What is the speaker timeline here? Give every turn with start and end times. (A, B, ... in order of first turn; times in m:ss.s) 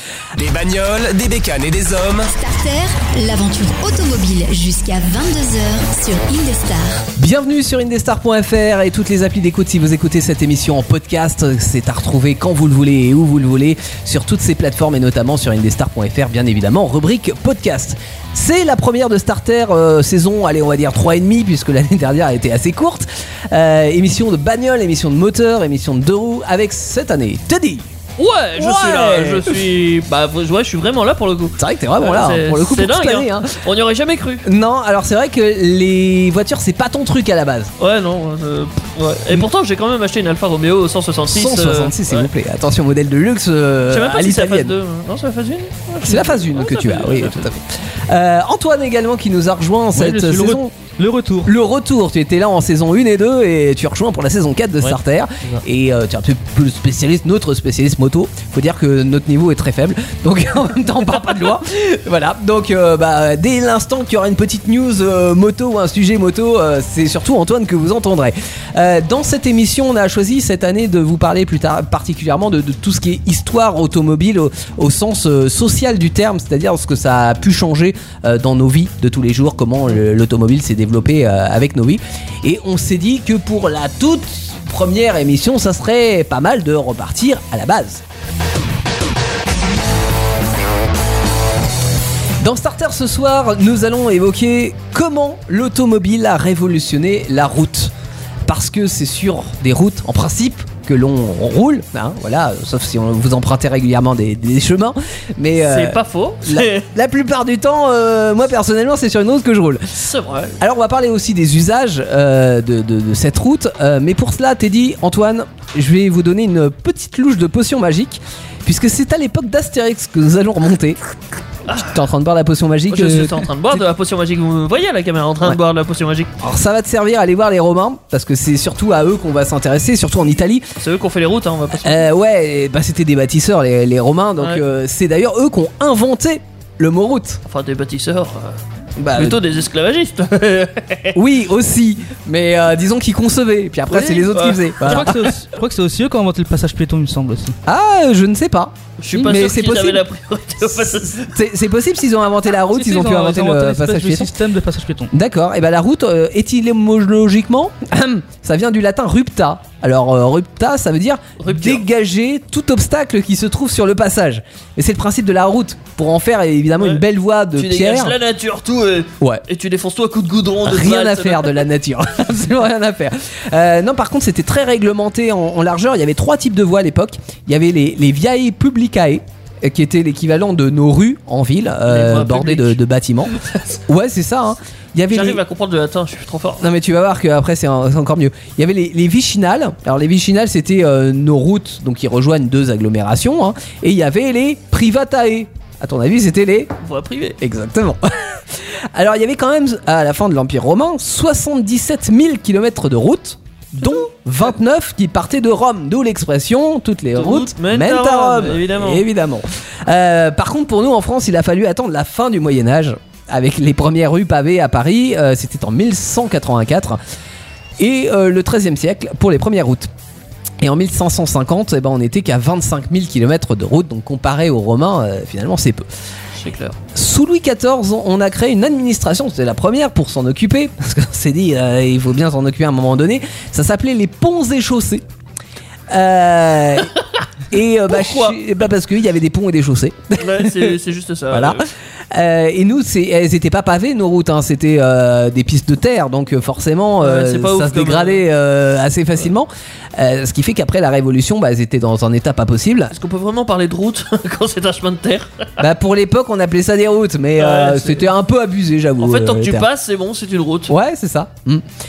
0:00.4-0:02.3 A
0:02.3-0:07.1 B
0:07.2-0:27.9 C
0:28.2-0:34.5 D
0:28.6-0:29.6 C
0:31.6-0:33.6 C
0:34.4-0:37.7 C
0:37.8-0:42.3 D
0:41.3-0:44.7 C
0:43.9-0:47.5 D
0:46.0-0:50.7 C
0:50.0-0:51.5 E
0:51.4-1:28.0 C
1:32.4-1:37.9 C
1:38.5-1:50.0 C
1:45.6-1:46.9 D
1:49.9-1:50.6 D
1:50.6-2:01.0 C
2:01.7-2:02.0 D
2:01.8-2:03.8 C
2:02.9-2:06.3 D
2:06.4-2:10.7 C
2:10.8-2:12.1 D
2:11.8-2:17.4 C
2:17.5-2:21.2 D
2:19.0-2:19.4 C
2:21.2-2:25.2 C
2:23.9-2:25.3 D
2:24.8-2:27.6 E
2:27.7-2:30.0 C
2:29.0-2:31.4 D
2:30.7-2:34.3 C
2:32.7-2:35.1 E
2:35.1-2:48.2 C
2:41.4-2:41.8 D
2:47.6-2:51.6 D
2:50.6-3:03.4 C
3:01.9-3:02.8 D
3:03.4-3:03.8 D
3:03.9-3:05.4 C
3:05.1-3:06.7 D
3:06.6-3:16.8 C
3:16.8-3:17.4 D
3:17.4-3:37.0 C
3:27.1-3:29.1 D
3:37.8-3:39.9 C
3:40.6-3:45.9 C
3:46.4-3:46.8 D
3:46.9-3:55.0 C
3:55.9-3:56.9 C
3:57.5-4:00.8 C
3:57.9-3:58.4 D
4:00.2-4:01.6 D
4:01.3-4:01.6 C
4:02.1-4:12.9 C
4:07.0-4:08.2 D
4:12.9-4:15.6 D
4:15.6-4:19.7 C
4:17.4-4:18.1 D
4:19.0-4:20.7 D
4:20.7-4:21.6 C